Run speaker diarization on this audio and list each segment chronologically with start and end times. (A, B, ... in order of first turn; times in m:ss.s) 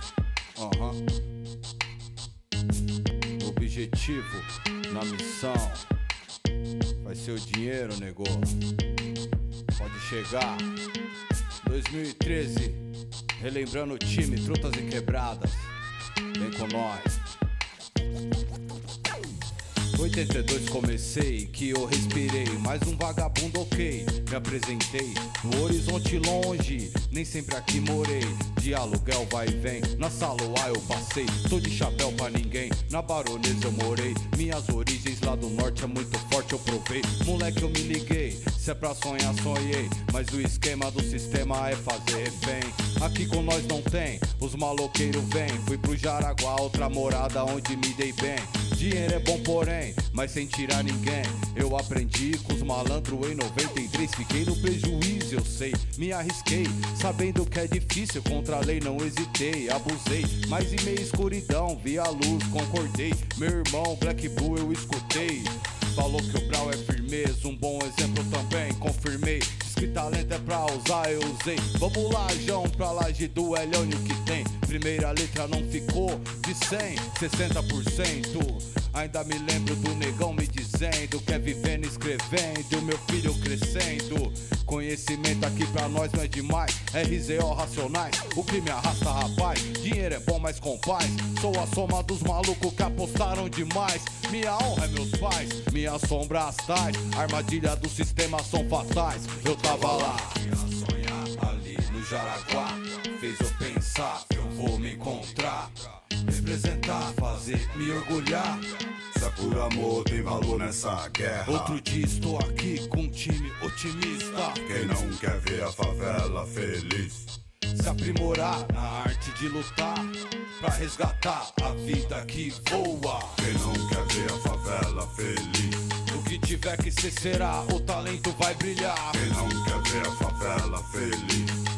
0:00.6-0:01.0 A
0:03.4-0:05.9 A
0:07.0-0:08.6 A
0:09.8-0:10.7 A
0:11.6-0:12.8 A
0:13.4-0:15.7 A
0:16.4-0:17.2 A
0:19.9-1:49.0 A
1:49.1-1:51.8 B
1:51.4-1:54.9 A
1:54.6-1:57.3 B
1:57.7-2:03.5 A
2:03.4-2:05.9 B
2:06.1-2:09.2 A
2:09.1-2:11.6 B